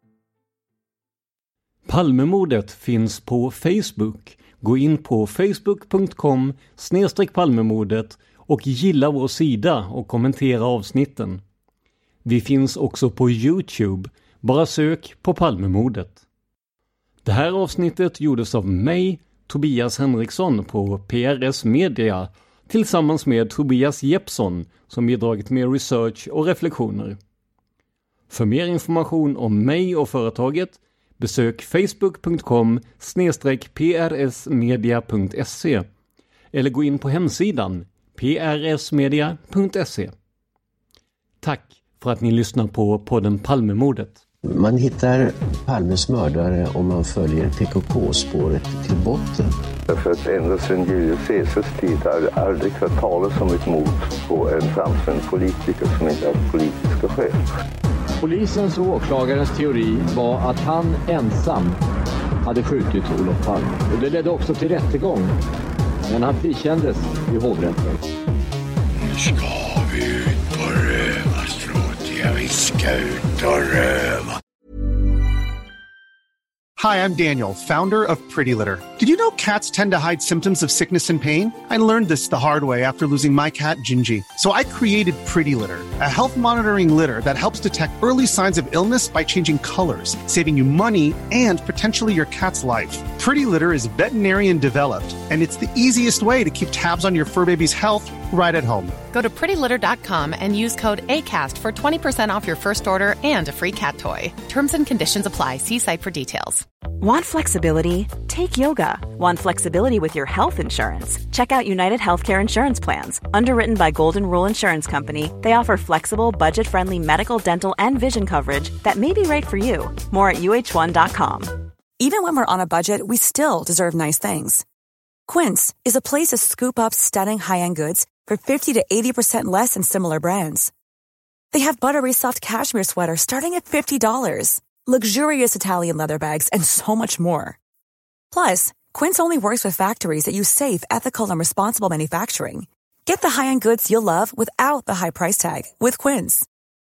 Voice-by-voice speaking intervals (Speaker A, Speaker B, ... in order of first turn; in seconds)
Speaker A: 1.9-11.4, 12.2-16.2, 17.2-27.2, 28.3-35.9, 36.5-40.1, 41.4-44.2
Speaker B: 44.5-49.5
Speaker C: 49.9-57.4
Speaker D: 58.2-61.8, 62.5-65.3, 66.1-67.8
Speaker E: 69.0-74.4
Speaker F: 76.8-99.0
Speaker G: 99.0-106.7
Speaker H: 107.0-121.6
Speaker I: 122.0-124.6, 125.3-130.7, 131.5-137.6, 138.3-146.5